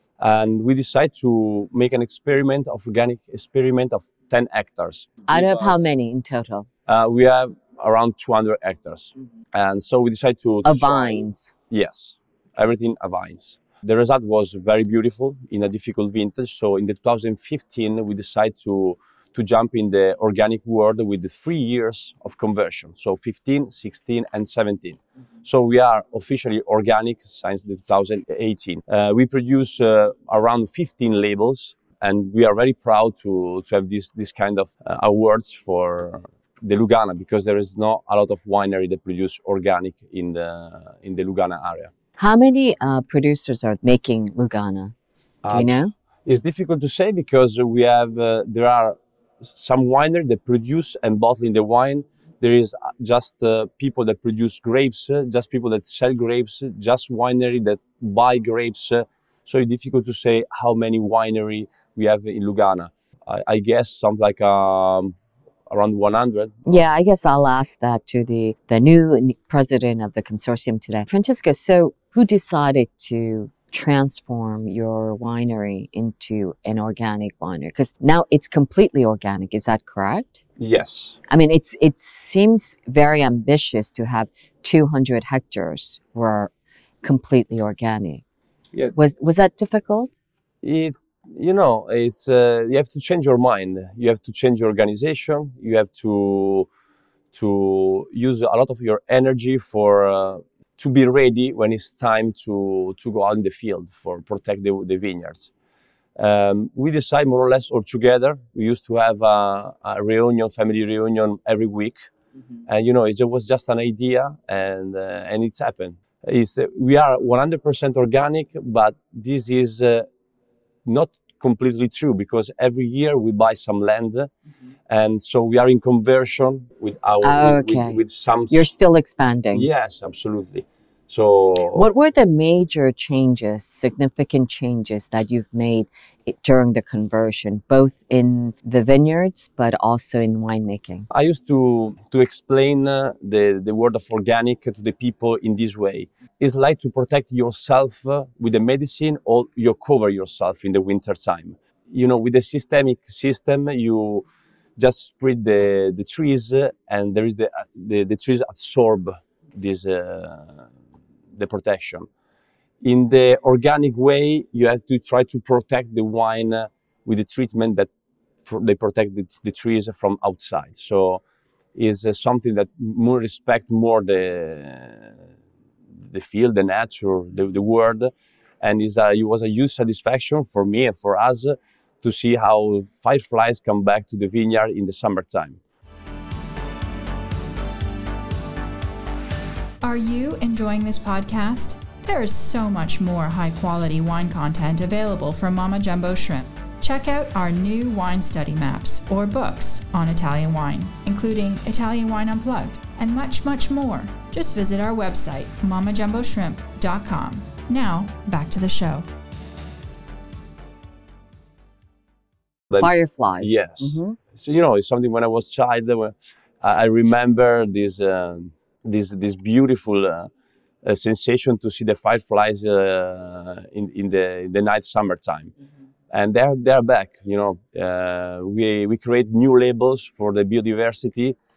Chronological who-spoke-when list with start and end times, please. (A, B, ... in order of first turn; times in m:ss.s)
0:00.2-0:05.8 A
0:05.3-0:06.7 B
0:06.9-0:41.9 A
0:10.6-0:11.5 B
0:42.2-0:44.9 B
0:45.4-1:05.2 A
0:45.5-0:45.9 B
1:05.7-1:06.8 A
1:06.6-1:20.4 B
1:20.6-1:21.2 A
1:21.3-1:26.5 B
1:27.0-1:28.2 B
1:28.9-1:30.1 B
1:30.6-1:36.7 A
1:37.3-1:45.5 A
1:46.2-1:52.0 A
1:52.7-2:00.0 A
2:00.8-2:04.3 A
2:04.9-2:08.7 A
2:07.2-2:09.7 B
2:09.5-2:11.9 A
2:11.7-2:21.1 B
2:21.1-2:34.2 A
2:34.8-2:40.6 A
2:41.4-2:42.1 A
2:42.8-2:47.9 A
2:48.4-2:51.2 A
2:51.7-2:55.1 A
2:56.1-3:05.6 A
3:09.8-3:29.1 C
3:32.7-3:40.3 A
3:32.8-3:34.2 B
3:40.8-3:45.5 A
3:46.1-3:51.4 A